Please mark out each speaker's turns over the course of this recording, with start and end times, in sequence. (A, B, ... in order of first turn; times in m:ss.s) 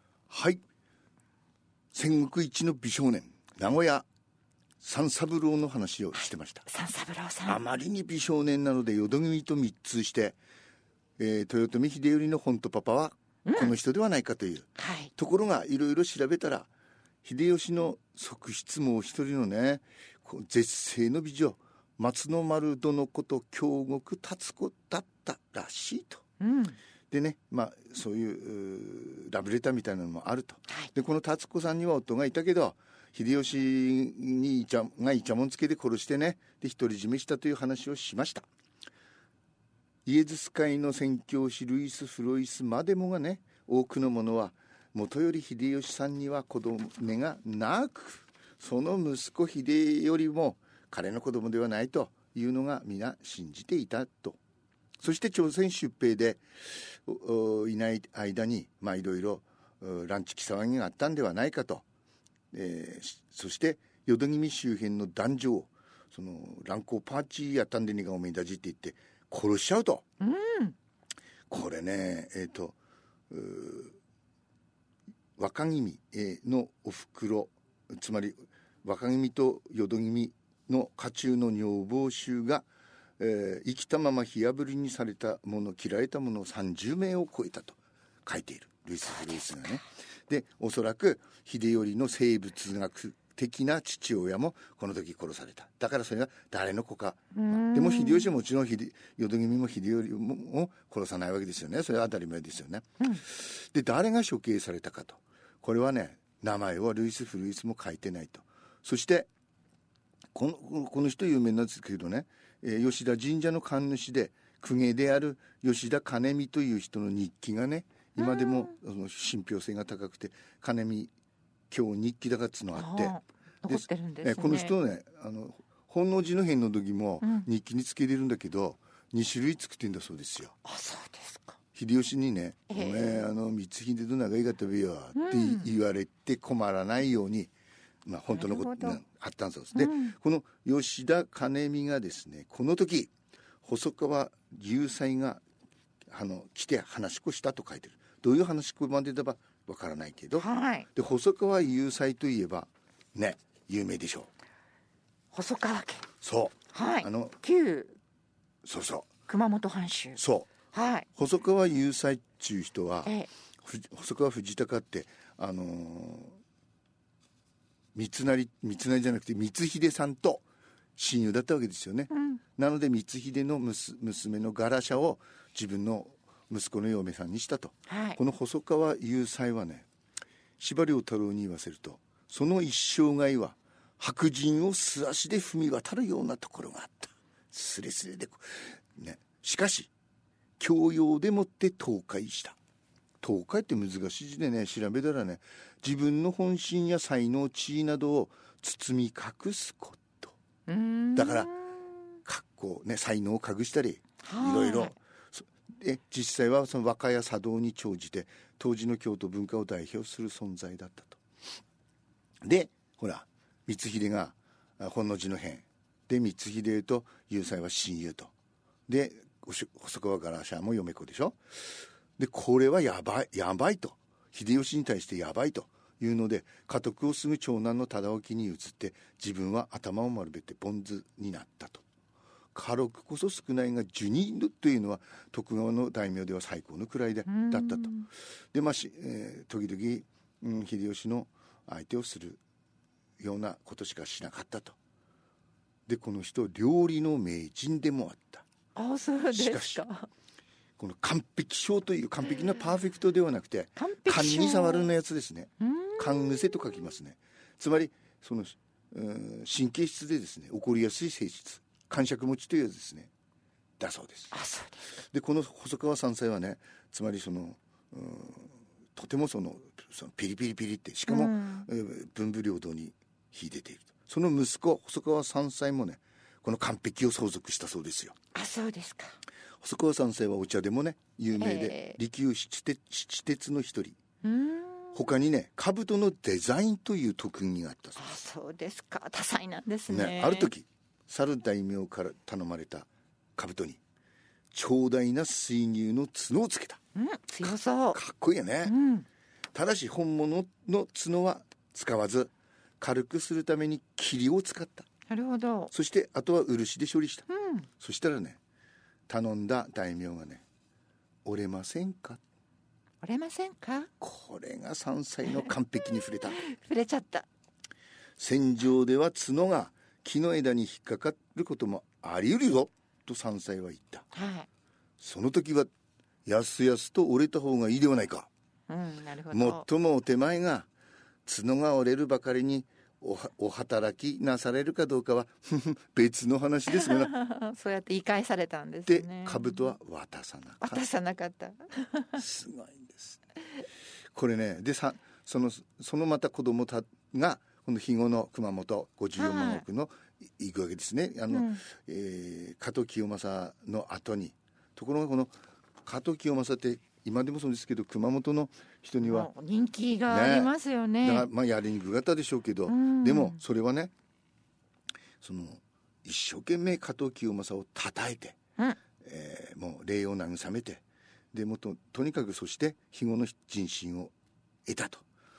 0:00.3-0:00.6 A
0:01.9-0:04.0 A
0:04.8-0:06.7 A
0:06.1-0:07.6 B
0:07.5-0:10.4 A
0:11.2-0:16.7 A
0:13.5-0:13.8 B
0:14.8-0:15.1 B
0:17.2-0:26.2 A
0:26.4-0:26.8 B
0:27.1-0:38.5 A
0:40.0-0:54.4 A
0:55.0-1:01.8 A
1:02.5-1:10.0 A
1:10.2-1:10.8 B
1:11.5-1:12.8 A
1:13.3-1:14.0 A
1:15.4-1:22.7 A
1:23.2-1:49.3 A
1:29.1-1:29.7 B
1:37.3-1:38.3 B
1:50.3-2:01.1 A
1:58.2-1:58.7 B
2:01.7-2:03.2 A
2:02.7-2:04.8 B
2:03.7-2:10.6 A
2:07.2-2:07.5 B
2:10.6-2:11.6 B
2:11.8-2:17.5 A
2:12.7-2:13.3 B
2:15.1-2:15.7 B
2:18.0-2:23.1 A
2:18.3-2:19.0 B
2:19.7-2:20.2 B
2:23.6-2:25.4 A
2:26.1-2:34.3 A
2:30.4-2:30.9 B
2:35.3-2:36.1 B
2:36.2-2:37.4 A
2:36.7-2:38.0 B
2:38.6-2:39.1 A
2:39.3-2:40.2 B
2:40.2-2:40.5 A
2:40.7-2:41.1 B
2:41.2-2:46.4 A
2:43.0-2:43.3 B
2:48.0-2:50.4 A
2:51.0-2:59.9 A
2:52.1-2:52.4 B
2:57.9-2:58.2 B
3:00.6-3:09.9 A
3:10.6-3:12.6 A
3:13.2-3:20.4 A
3:20.7-3:21.8 B
3:21.2-3:21.5 A
3:22.2-3:31.2 A
3:24.2-3:25.0 B
3:32.4-3:38.3 A
3:38.9-3:41.4 A
3:42.2-3:51.8 A
3:52.5-3:58.0 A
3:57.3-3:58.1 B
3:58.5-4:02.4 A
4:03.2-4:04.8 A
4:05.9-4:08.5 A
4:08.8-4:10.1 B
4:09.3-4:09.8 A
4:10.8-4:23.1 A
4:13.8-4:14.9 B
4:15.6-4:16.6 B
4:23.8-4:24.3 A
4:24.3-4:25.0 B
4:25.0-4:38.2 A
4:31.1-4:31.7 B
4:38.3-4:39.2 B
4:39.6-4:44.0 A
4:41.4-4:42.0 B
4:44.2-4:45.0 B
4:44.9-4:48.0 A
4:48.0-4:50.5 B
4:49.9-4:53.8 A
4:54.5-4:56.8 A
4:57.0-4:58.0 B
4:57.4-4:58.7 A
4:58.7-4:59.1 B
4:59.5-5:04.9 A
5:05.1-5:05.7 B
5:05.7-5:07.3 A
5:07.3-5:07.7 B
5:07.8-5:08.4 A
5:09.1-5:10.4 A
5:11.2-5:12.2 A
5:13.0-5:13.9 B
5:14.0-5:16.4 A
5:16.3-5:17.3 B
5:18.2-5:24.1 A
5:24.1-5:24.5 B
5:25.0-5:25.7 A
5:26.2-5:28.3 A
5:28.7-5:29.7 B
5:29.3-5:30.7 A
5:31.3-5:37.1 A
5:36.8-5:39.7 B
5:38.9-5:40.9 A
5:40.6-5:42.2 B
5:42.2-5:43.2 A
5:44.1-5:59.3 A
5:49.2-5:49.6 B
5:51.3-5:51.6 B
5:59.0-6:01.3 B
6:00.1-6:03.9 A
6:02.7-6:03.4 B
6:05.2-6:08.4 A
6:09.0-6:14.1 A
6:14.7-6:15.0 A